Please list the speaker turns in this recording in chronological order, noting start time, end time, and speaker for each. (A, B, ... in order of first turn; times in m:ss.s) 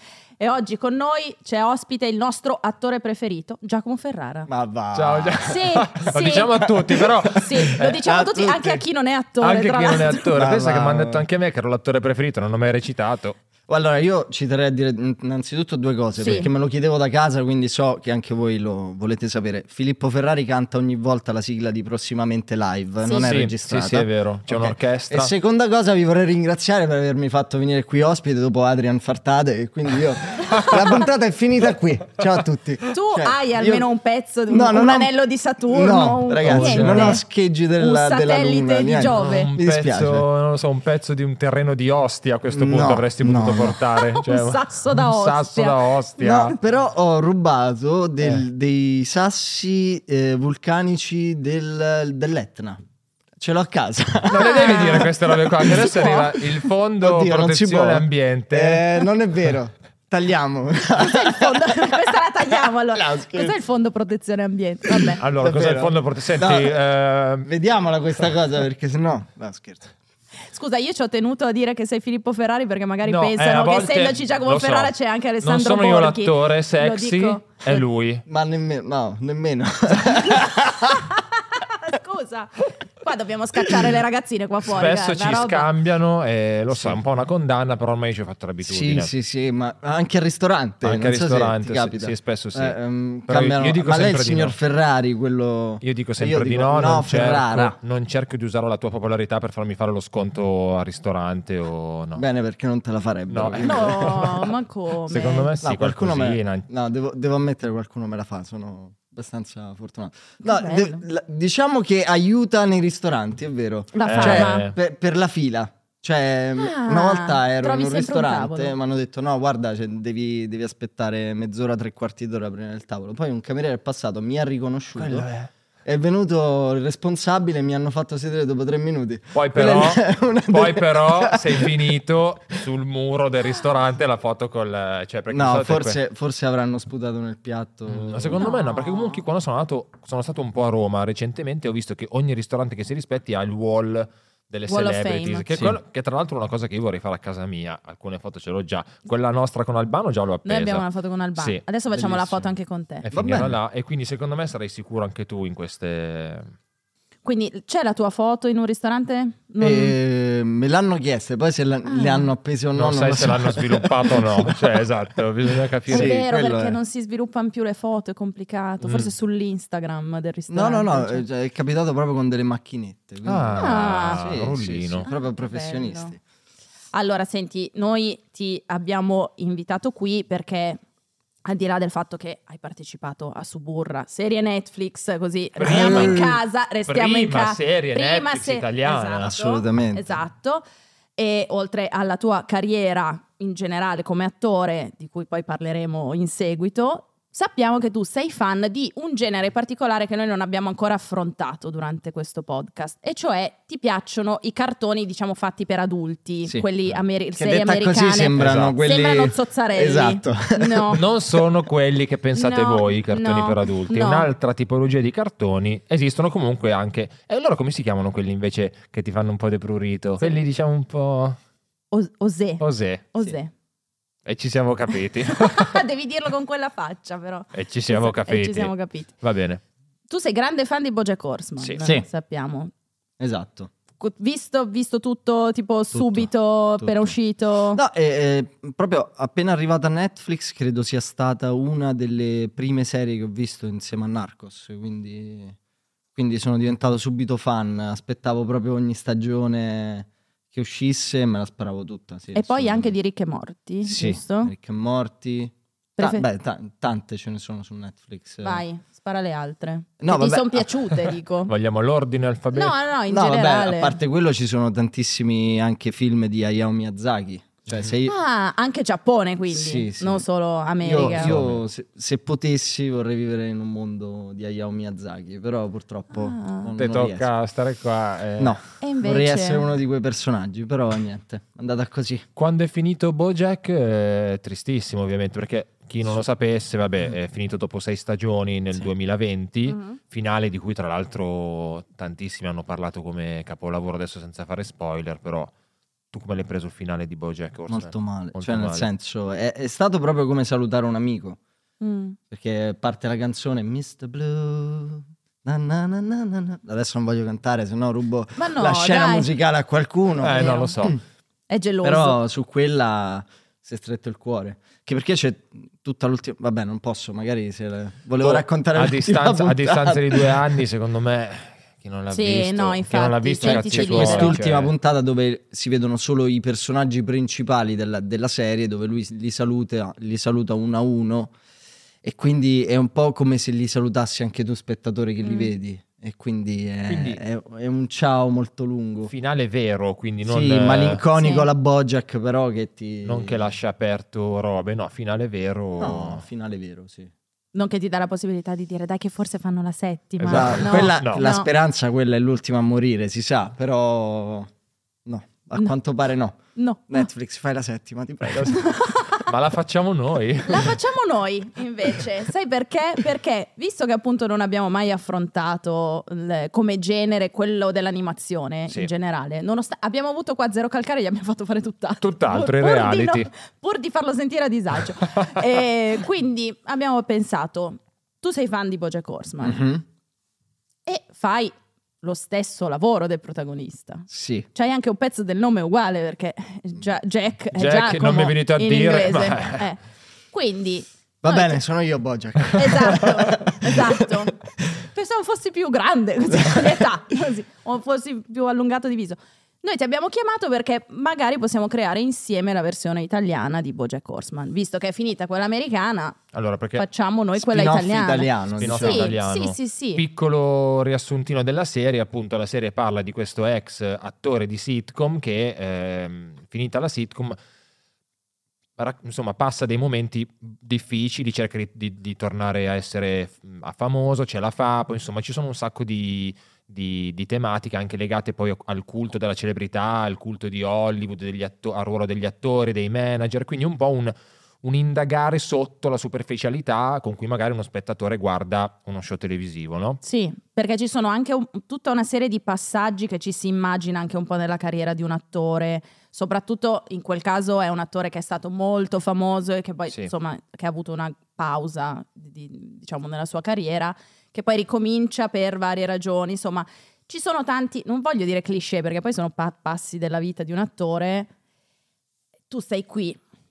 0:00.4-0:04.5 A
0:04.5-0:05.6 B
0:04.9-0:08.0 C
0:05.4-0:10.4 A
0:07.6-0:08.8 B
0:09.4-0:13.4 C
0:10.3-0:11.2 B
0:13.7-0:33.9 B
0:16.2-0:16.5 A
0:23.0-0:23.3 A
0:23.2-0:25.3 C
0:32.9-0:37.2 A
0:34.5-0:35.1 B
0:35.7-0:40.2 B
0:36.4-0:37.2 C
0:37.8-0:39.5 A
0:39.1-0:46.6 C
0:42.5-0:43.8 B
0:44.0-0:45.8 A
0:46.2-0:52.8 B
0:53.4-0:55.1 B
0:54.3-0:59.0 C
0:54.3-0:56.4 A
0:57.0-1:02.1 B
1:01.0-1:05.2 A
1:02.6-1:03.6 B
1:04.9-1:06.8 B
1:05.2-1:07.5 C
1:07.4-1:09.9 B
1:10.5-1:17.8 A
1:13.0-1:18.2 C
1:18.3-1:21.1 B
1:20.1-1:25.7 A
1:24.6-1:29.1 C
1:26.7-1:27.0 B
1:28.6-1:37.8 B
1:30.8-1:32.8 C
1:33.3-1:34.6 C
1:35.8-1:42.2 C
1:42.2-1:44.3 B
1:43.3-1:44.5 C
1:43.6-1:45.5 A
1:45.1-1:46.6 C
1:45.6-2:05.3 B
1:50.4-1:51.0 A
1:53.9-1:54.7 A
1:54.0-1:54.7 C
1:56.6-1:58.7 A
2:05.0-2:05.5 C
2:05.8-2:11.9 B
2:09.3-2:16.0 C
2:15.3-2:18.5 B
2:17.9-2:31.6 C
2:18.4-2:19.2 A
2:24.7-2:25.4 A
2:25.5-2:25.8 B
2:30.4-2:33.0 A
2:31.9-2:32.5 B
2:33.0-2:36.5 C
2:33.1-2:33.6 B
2:37.2-2:39.9 A
2:39.6-2:44.6 B
2:41.8-2:42.3 A
2:42.8-2:46.2 C
2:45.9-2:46.8 B
2:45.9-2:51.2 A
2:48.8-2:49.1 C
2:50.5-2:56.2 B
2:53.2-2:55.1 C
2:53.5-2:54.3 A
2:55.0-2:56.2 A
2:56.9-3:00.8 A
3:01.4-3:10.6 A
3:05.6-3:09.3 C
3:05.6-3:06.4 B
3:09.2-3:10.2 B
3:11.2-3:31.0 A
3:27.4-3:31.0 B
3:28.4-3:28.8 C
3:30.9-3:41.4 C
3:32.3-3:34.3 A
3:41.9-3:42.6 A
3:42.6-3:43.1 C
3:43.1-3:43.5 A
3:44.2-3:45.8 C
3:45.2-3:49.1 A
3:47.5-3:49.6 C
3:50.1-3:52.7 A
3:53.2-3:53.7 B
3:54.0-3:57.8 A
3:55.9-3:57.1 B
3:57.7-4:05.6 B
4:06.1-4:12.9 B
4:12.3-4:14.5 A
4:13.8-4:18.6 B
4:16.0-4:16.2 A
4:18.4-4:21.5 A
4:20.0-4:20.9 B
4:21.5-4:22.8 C
4:22.5-4:24.0 A
4:23.1-4:28.1 B
4:28.0-4:31.3 A
4:29.5-4:30.2 B
4:30.8-4:37.3 B
4:31.2-4:31.6 C
4:36.1-4:36.7 A
4:36.8-4:38.6 C
4:38.4-4:42.2 B
4:38.8-4:39.7 A
4:42.4-4:55.5 C
4:49.7-4:50.0 A
4:56.1-4:58.9 C
4:57.7-5:01.4 B
5:01.8-5:02.2 A
5:02.3-5:11.0 B
5:08.4-5:09.3 A
5:10.2-5:11.0 C
5:10.3-5:10.7 A
5:11.5-5:12.2 A
5:11.8-5:20.4 B
5:18.2-5:24.7 C
5:22.1-5:24.4 A
5:23.4-5:31.3 B
5:32.0-5:39.1 B
5:35.2-5:35.5 A
5:36.9-5:37.2 C
5:39.1-5:41.0 C
5:40.2-5:43.5 B
5:41.2-5:41.5 A
5:43.0-5:46.2 C
5:45.8-5:47.1 B
5:47.5-5:51.5 A
5:50.2-5:51.2 C
5:50.2-5:54.5 B
5:55.0-5:58.7 B
5:56.6-5:57.0 A
5:58.3-5:58.5 C
5:58.4-5:59.3 A
5:59.2-6:00.8 C
6:00.5-6:19.6 A
6:12.0-6:13.3 C
6:19.4-6:19.8 B
6:20.8-6:31.6 A
6:24.1-6:24.5 B
6:27.6-6:29.6 C
6:31.2-6:34.3 B
6:32.5-6:34.4 A
6:34.9-6:46.2 A
6:46.3-6:46.8 C
6:46.8-6:50.0 A
6:47.3-6:49.1 B
6:48.6-6:57.4 C
6:58.8-7:20.0 C
7:20.0-7:41.3 A
7:42.5-7:43.2 A